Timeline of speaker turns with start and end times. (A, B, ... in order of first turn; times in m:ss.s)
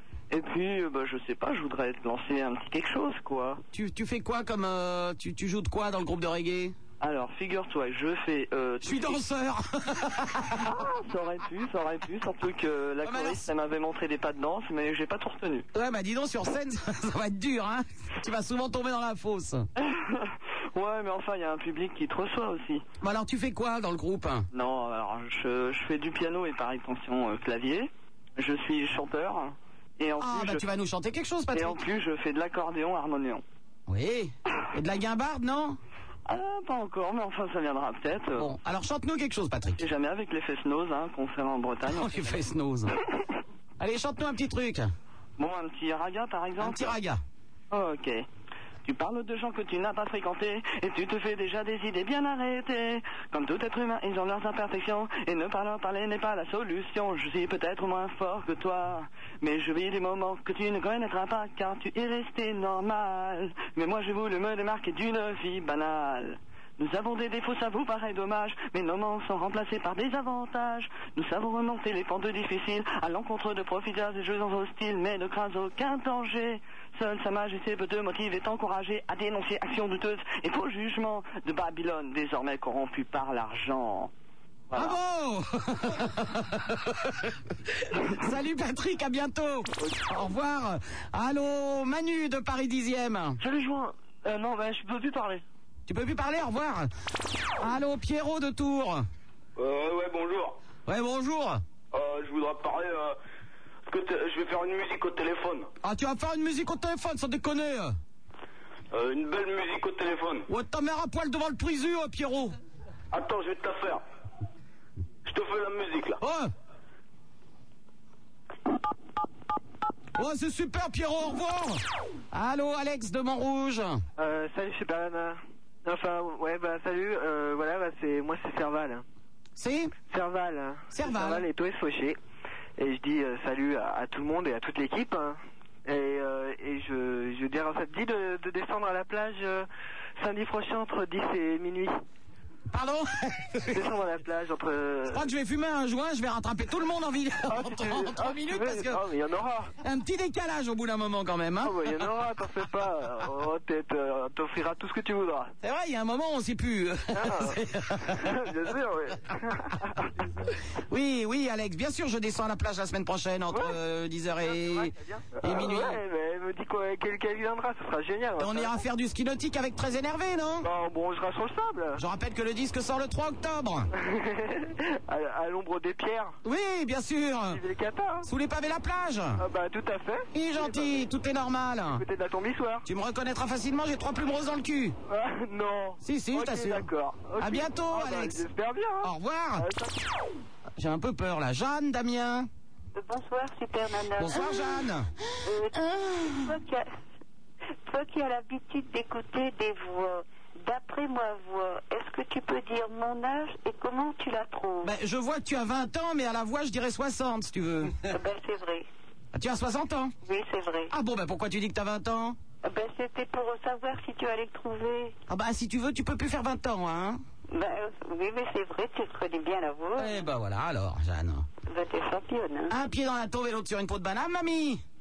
0:00.3-0:03.6 A
0:03.7-0:06.7 B
0:07.0-0:09.2 A
0:08.8-0:10.6 B
0:10.6-0:15.7 A
0:13.0-0:13.4 B
0:15.7-0:19.6 B
0:19.9-0:22.8 A
0:23.0-0:24.4 B
0:24.5-0:30.6 A
0:30.2-0:31.8 B
0:31.5-0:33.4 A
0:33.9-0:35.8 B
0:36.2-0:38.5 A
0:38.4-0:39.8 B
0:39.8-0:42.4 A
0:41.9-0:42.9 B
0:43.8-0:44.9 B
0:45.4-0:47.0 A
0:46.6-0:47.2 B
0:47.7-0:48.2 A
0:48.8-1:24.1 A
1:24.7-1:25.0 A
1:24.8-1:26.8 B
1:27.9-1:33.4 B
1:35.9-1:36.9 B
1:37.6-1:39.0 B
1:39.6-1:40.6 C
1:40.9-1:41.6 B
1:41.9-1:43.2 C
1:43.9-1:45.7 C
1:45.8-1:48.0 B
1:48.9-1:50.5 C
1:50.5-1:52.5 B
1:53.1-1:54.0 C
1:55.2-1:56.2 C
1:56.2-1:56.5 B
2:00.2-2:01.8 B
2:02.3-2:04.0 B
2:04.2-2:09.0 D
2:09.6-2:09.9 B
2:10.1-2:12.2 D
2:10.9-2:11.4 B
2:12.8-2:15.4 D
2:15.9-2:19.6 D
2:20.2-2:21.9 D
2:22.7-2:23.9 B
2:23.7-2:25.2 D
2:25.1-2:29.0 B
2:27.8-2:29.7 D
2:29.8-2:32.0 B
2:31.8-2:35.5 D
2:35.6-2:38.3 B
2:40.9-2:46.0 B
2:45.5-2:48.7 D
2:48.4-2:50.7 B
2:50.7-2:51.9 D
2:52.0-2:53.9 B
2:55.1-2:56.3 D
2:56.4-2:57.6 B
2:57.5-2:58.2 D
2:58.2-2:59.4 B
2:59.4-3:00.8 D
3:00.3-3:02.0 B
3:02.1-3:02.8 D
3:02.8-3:04.9 B
3:05.1-3:09.0 D
3:06.0-3:08.4 B
3:09.0-3:09.7 B
3:10.8-3:12.5 B
3:12.9-3:14.7 E
3:14.2-3:15.1 B
3:15.4-3:16.9 E
3:17.8-3:24.9 E
3:24.8-3:28.0 B
3:28.1-3:28.9 E
3:29.3-3:30.1 B
3:30.2-3:30.9 E
3:30.9-3:32.4 B
3:32.6-3:35.2 E
3:35.3-3:37.2 B
3:37.5-3:40.2 E
3:40.0-3:41.5 B
3:41.7-3:42.7 E
3:42.7-3:44.8 B